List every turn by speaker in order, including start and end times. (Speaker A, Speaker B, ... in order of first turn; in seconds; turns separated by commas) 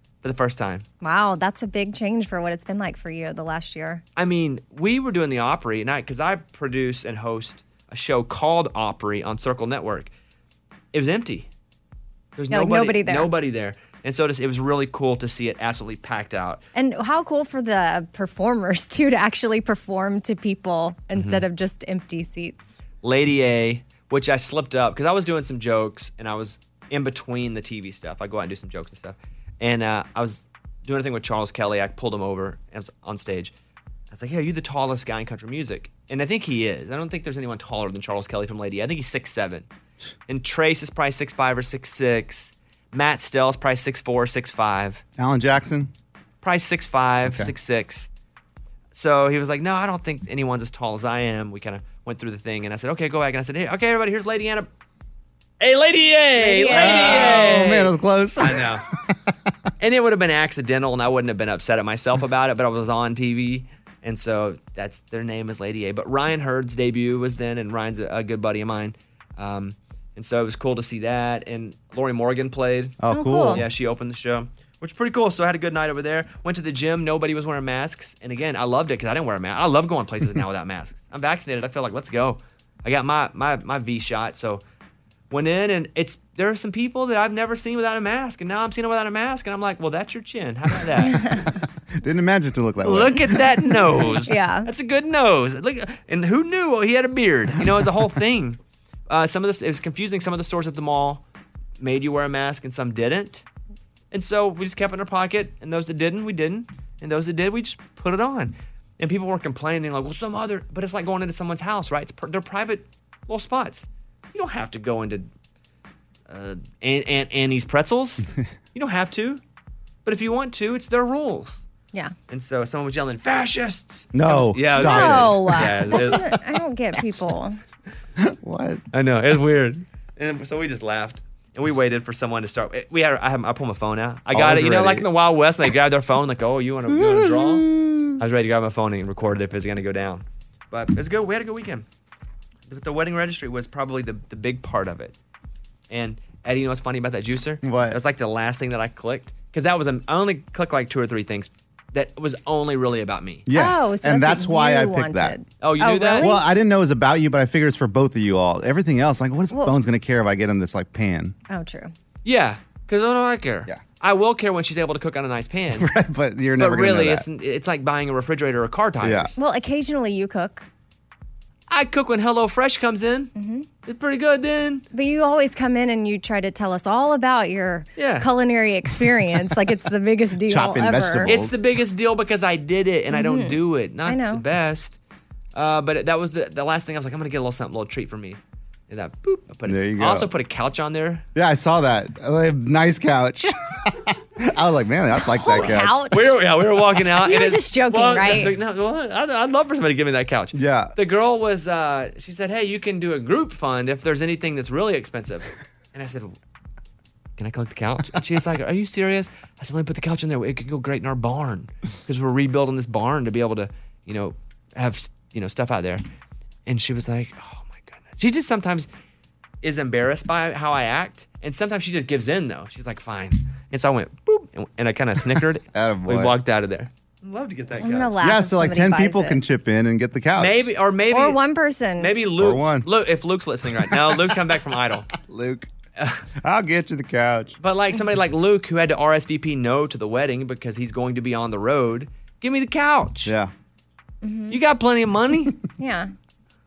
Speaker A: 0.2-0.8, Speaker B: 1.0-4.0, Speaker A: 4.2-10.1, Speaker A: 10.9-11.5, Speaker A: 12.4-16.6, Speaker B: 12.5-13.3, Speaker B: 16.8-22.8, Speaker A: 21.2-21.4, Speaker A: 23.0-33.5, Speaker A: 34.1-39.7, Speaker A: 40.3-45.0, Speaker C: 45.2-45.9, Speaker A: 46.4-48.1, Speaker C: 47.3-47.5, Speaker A: 48.9-54.7, Speaker A: 55.6-58.8, Speaker B: 56.4-57.5, Speaker C: 56.7-58.8, Speaker A: 59.8-84.6, Speaker C: 73.0-73.7, Speaker B: 73.1-73.6, Speaker A: 85.3-91.2, Speaker B: 91.1-91.4, Speaker C: 92.0-93.7, Speaker A: 92.8-101.2, Speaker B: 94.3-94.7, Speaker A: 101.8-103.5, Speaker A: 104.1-115.3, Speaker A: 116.3-119.4, Speaker A: 120.0-121.6, Speaker A: 122.3-126.2, Speaker C: 124.1-126.4, Speaker B: 124.8-127.6, Speaker C: 128.2-128.8, Speaker A: 128.9-141.8, Speaker C: 134.3-135.1, Speaker C: 136.9-138.2, Speaker A: 142.7-145.2, Speaker A: 145.9-153.5, Speaker C: 147.6-148.0, Speaker C: 153.5-155.4, Speaker B: 153.5-156.4, Speaker A: 155.6-156.3, Speaker C: 156.2-161.3, Speaker B: 161.5-161.9, Speaker A: 162.2-165.9, Speaker C: 165.8-167.2, Speaker A: 166.6-169.4, Speaker C: 169.0-169.3, Speaker B: 169.4-170.7, Speaker A: 171.7-173.3, Speaker B: 173.3-173.7, Speaker A: 173.8-174.8, Speaker B: 174.9-181.3, Speaker A: 178.0-178.3, Speaker C: 180.5-181.6, Speaker A: 181.3-185.0, Speaker B: 183.1-184.4, Speaker A: 185.5-191.2, Speaker C: 189.7-190.3, Speaker C: 191.3-196.0, Speaker B: 195.2-196.3, Speaker A: 195.6-206.3, Speaker B: 197.2-198.6, Speaker C: 200.5-200.9, Speaker A: 207.4-216.0, Speaker A: 216.7-218.9, Speaker A: 219.6-228.1, Speaker C: 225.7-226.3, Speaker B: 227.8-229.4, Speaker C: 228.2-230.7, Speaker A: 230.4-231.4, Speaker B: 231.1-232.1, Speaker A: 232.0-235.1, Speaker C: 232.4-232.9, Speaker C: 235.2-235.7, Speaker C: 236.4-237.6, Speaker A: 237.6-243.3, Speaker C: 243.2-243.5, Speaker B: 244.2-244.6, Speaker A: 244.5-245.6, Speaker B: 245.8-246.1